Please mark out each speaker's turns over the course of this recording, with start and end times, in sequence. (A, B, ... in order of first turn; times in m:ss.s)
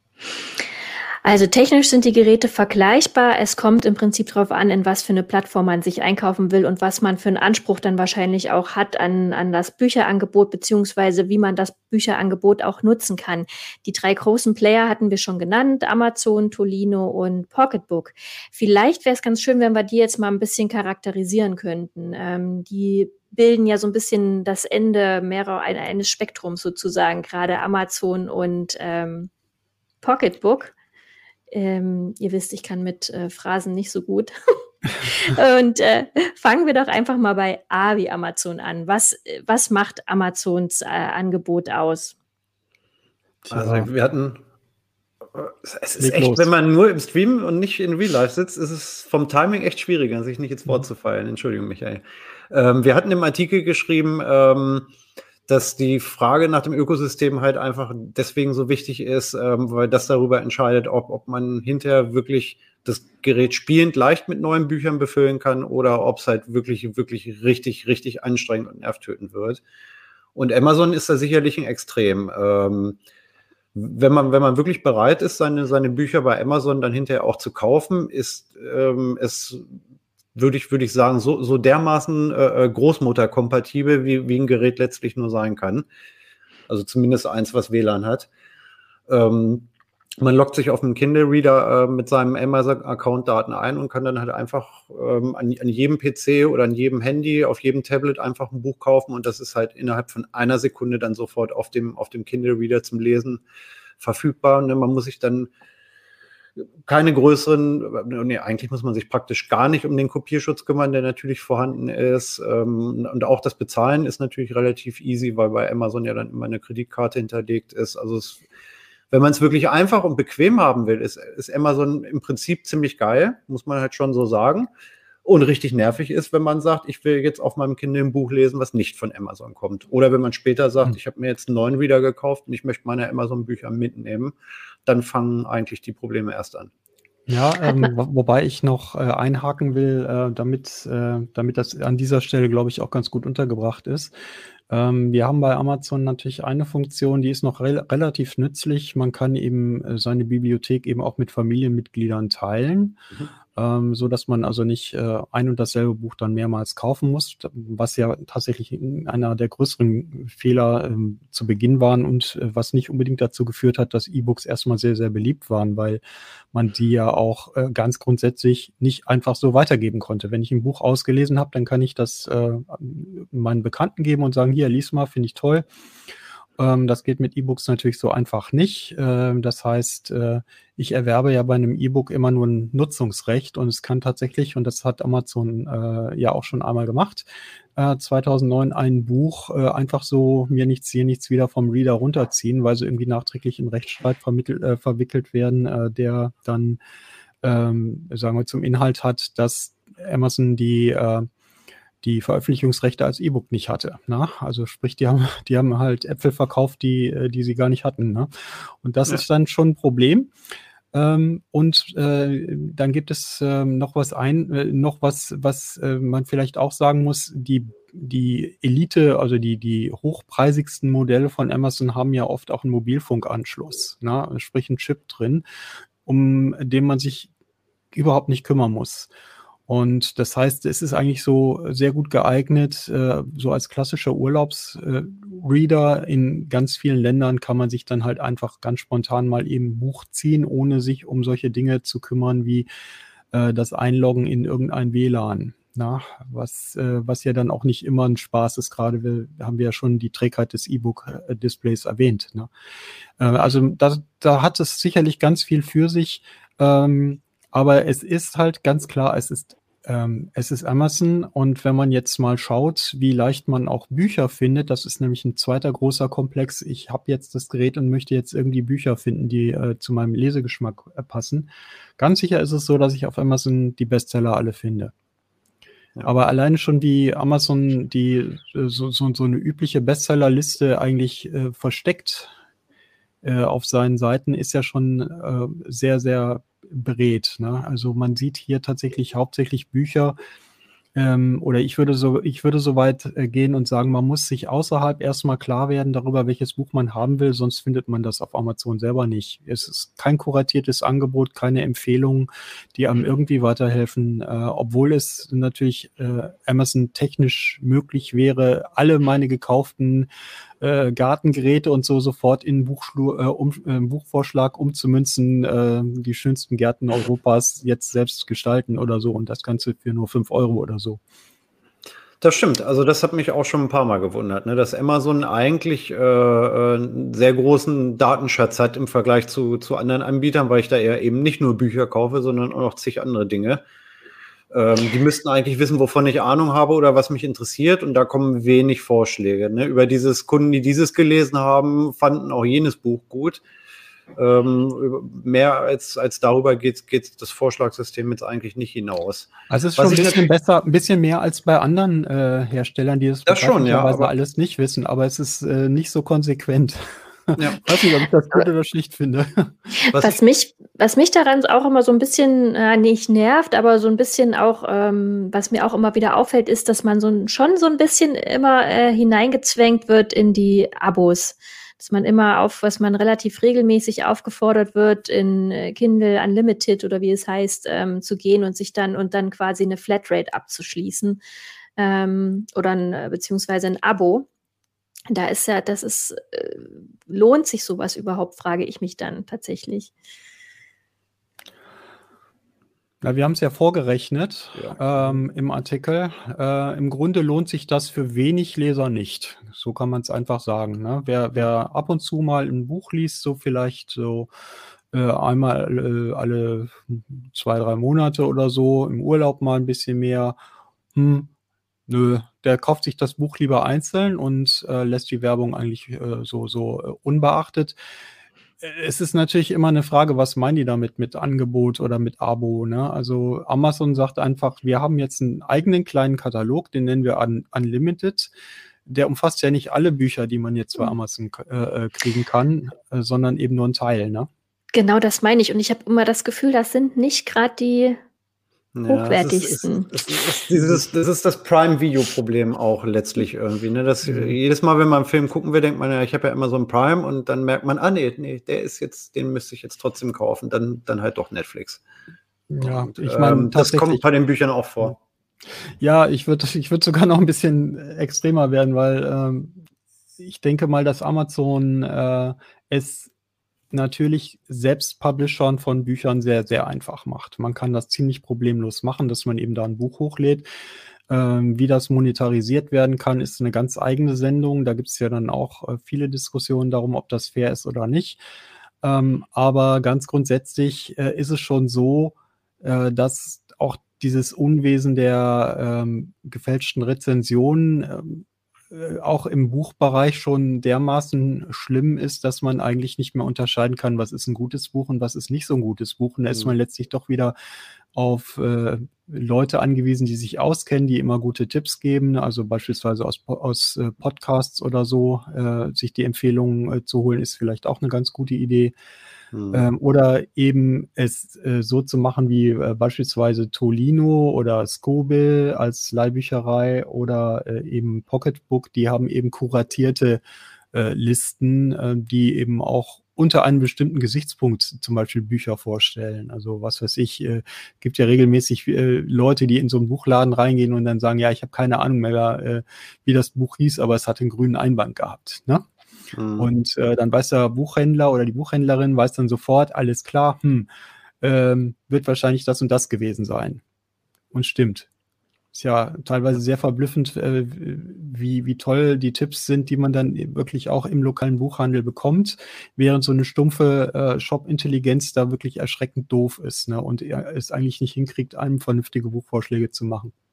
0:01.2-0:29.3 A
0:30.0-0:30.7 A
0:31.5-0:34.3 A
0:35.0-0:42.1 A
0:43.4-0:43.9 B
0:43.5-0:44.4 C
0:45.3-0:54.9 C
0:46.0-0:46.5 B
0:55.5-1:09.6 C
1:10.4-1:13.0 C
1:13.8-1:19.6 C
1:20.4-1:25.9 C
1:26.7-1:28.3 C
1:29.1-1:43.4 C
1:44.0-1:45.5 C
1:46.8-1:58.4 C
1:59.1-2:04.7 C
2:05.2-2:16.7 C
2:17.3-2:24.1 B
2:17.6-2:17.9 A
2:24.7-2:33.0 B
2:33.6-2:46.0 B
2:46.5-2:55.6 B
2:56.6-3:16.8 B
3:17.4-3:21.3 B
3:22.0-3:30.3 B
3:30.9-3:45.4 B
3:46.0-3:47.3 B
3:47.9-3:49.1 B
3:49.7-4:02.7 B
4:03.3-4:12.5 B
4:13.2-4:34.9 B
4:36.0-4:42.3 B
4:43.2-4:50.2 B
4:51.0-5:10.1 B
5:10.6-5:21.0 B
5:22.2-5:33.6 C
5:34.5-5:43.4 C
5:44.2-5:50.3 C
5:49.5-5:59.6 B
5:53.3-5:54.1 C
5:57.4-5:57.6 C
5:59.8-6:21.2 A
5:59.9-6:00.2 C
6:21.8-6:24.3 A
6:25.1-6:29.9 A
6:33.0-6:44.3 B
6:34.6-6:35.2 C
6:44.9-6:50.4 B
6:50.9-6:51.3 B
6:51.9-6:57.8 B
6:58.6-7:08.3 B
7:08.9-7:14.3 B
7:14.7-7:18.0 A
7:18.8-7:31.8 C
7:18.9-7:20.0 A
7:24.0-7:24.4 B
7:32.5-7:34.0 B
7:32.6-7:35.0 C
7:35.8-7:39.6 B
7:40.2-7:43.1 B
7:43.7-7:50.5 B
7:51.1-7:58.2 B
7:58.8-8:17.4 B
8:17.9-8:28.8 B
8:29.3-8:29.7 C
8:29.5-8:40.2 B
8:40.7-8:55.7 B
8:56.1-8:56.5 C
8:56.4-9:00.7 B
9:01.2-9:03.6 B
9:04.3-9:04.9 B
9:05.5-9:20.1 B